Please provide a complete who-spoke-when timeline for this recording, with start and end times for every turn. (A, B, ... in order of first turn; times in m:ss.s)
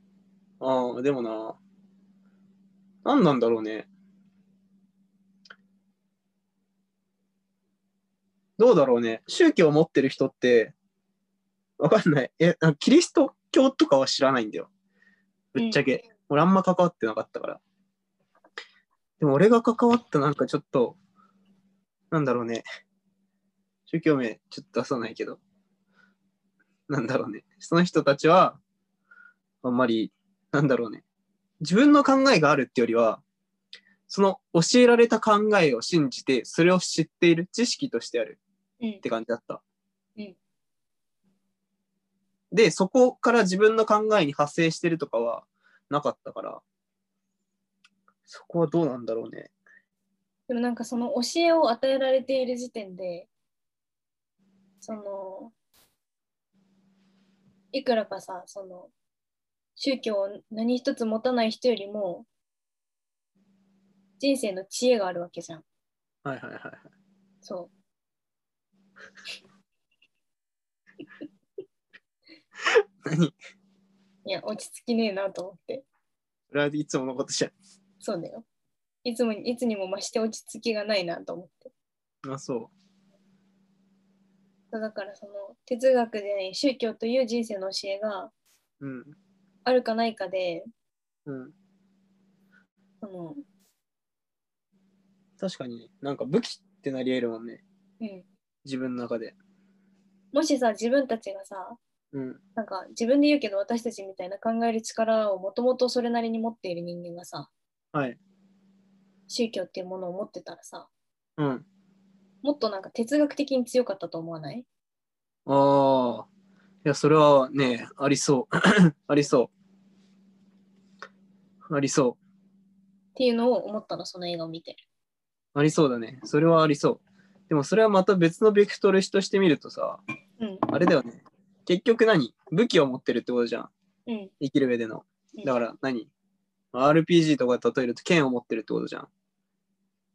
0:00.6-0:01.6 A
0:03.0-0:03.9 A
0:08.6-0:10.7 A
0:11.8-0:14.7 A
0:15.5-0:17.6 A
0:19.2-0:21.0 A
0:22.1-0:22.6 A
0:23.9-0:25.4 A
0:26.9-0:28.6 A
0:29.6-0:31.0 A
0:31.6-0:33.2 A
0:34.1-0:38.4 A
0:39.0-0:39.6 A
0:42.5-0:46.6 A
0:48.2-0:49.5 A
0:50.5-0:53.3 B
0:54.8-0:55.5 B
0:57.7-0:58.9 B
0:59.8-1:02.3 B
1:04.2-1:05.6 B
1:06.2-1:06.9 A
1:07.4-1:07.7 B
1:13.0-1:13.3 A
1:14.2-1:15.8 B
1:16.5-1:17.5 A
1:18.0-1:18.4 B
1:19.0-1:21.7 B
1:22.2-1:22.7 A
1:24.7-1:28.3 B
1:28.8-1:29.2 A
1:29.6-1:30.7 B
1:31.2-1:31.5 A
1:33.0-1:33.4 B
1:35.4-1:37.6 A
1:38.0-1:38.2 B
1:38.6-1:39.4 A
1:40.3-1:41.8 B
1:42.1-1:42.4 A
1:42.6-1:47.5 B
1:49.3-1:50.9 B
1:51.4-1:51.6 A
1:52.4-1:54.6 B
1:55.5-1:56.3 A
1:56.8-1:59.5 A
2:01.7-2:02.2 A
2:03.2-2:04.8 B
2:05.5-2:10.0 A
2:10.4-2:10.7 B
2:10.7-2:13.7 A
2:14.1-2:14.3 B
2:14.4-2:16.1 A
2:16.7-2:19.1 A